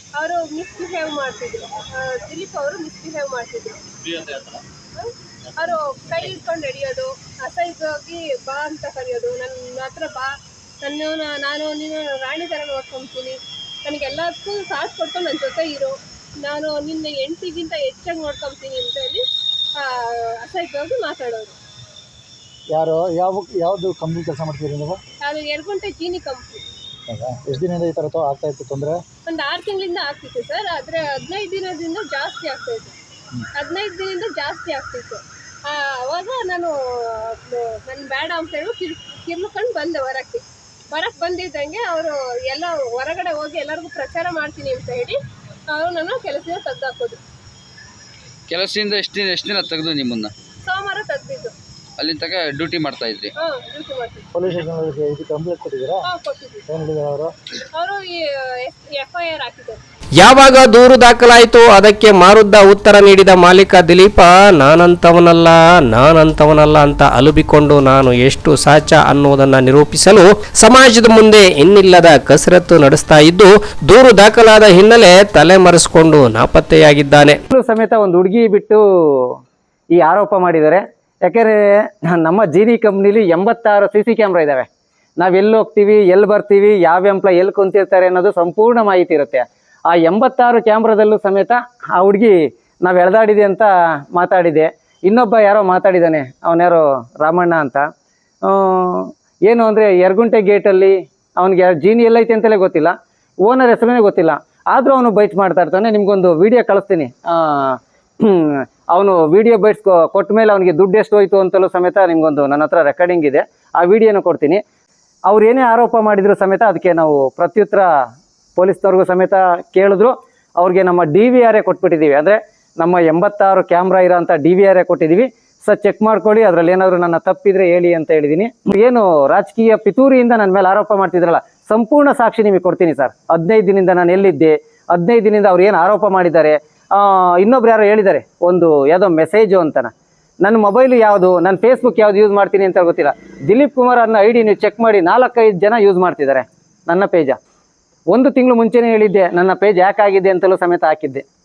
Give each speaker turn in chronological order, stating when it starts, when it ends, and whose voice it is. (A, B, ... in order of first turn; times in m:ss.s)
0:00.2-0:03.8 A
0:05.0-0:19.2 A
0:19.8-0:21.5 A
0:22.7-0:25.0 B
0:25.2-0:26.6 A
0:27.1-0:29.0 B
0:29.3-0:32.9 A
0:33.5-0:45.2 A
0:45.7-0:47.2 A
0:48.5-0:50.3 C
0:50.6-0:51.5 A
0:52.0-0:53.3 C
0:53.4-0:54.2 A
0:54.4-0:56.0 B
0:56.0-0:56.6 A
0:56.7-0:57.3 B
0:57.7-0:59.8 A
1:00.2-1:17.4 D
1:17.5-1:19.3 E
1:19.9-1:24.7 E
1:25.2-1:37.8 E
1:38.4-1:54.6 E
1:55.3-1:57.9 E
1:58.6-2:19.9 E
2:20.4-2:27.4 E
2:28.1-2:31.2 E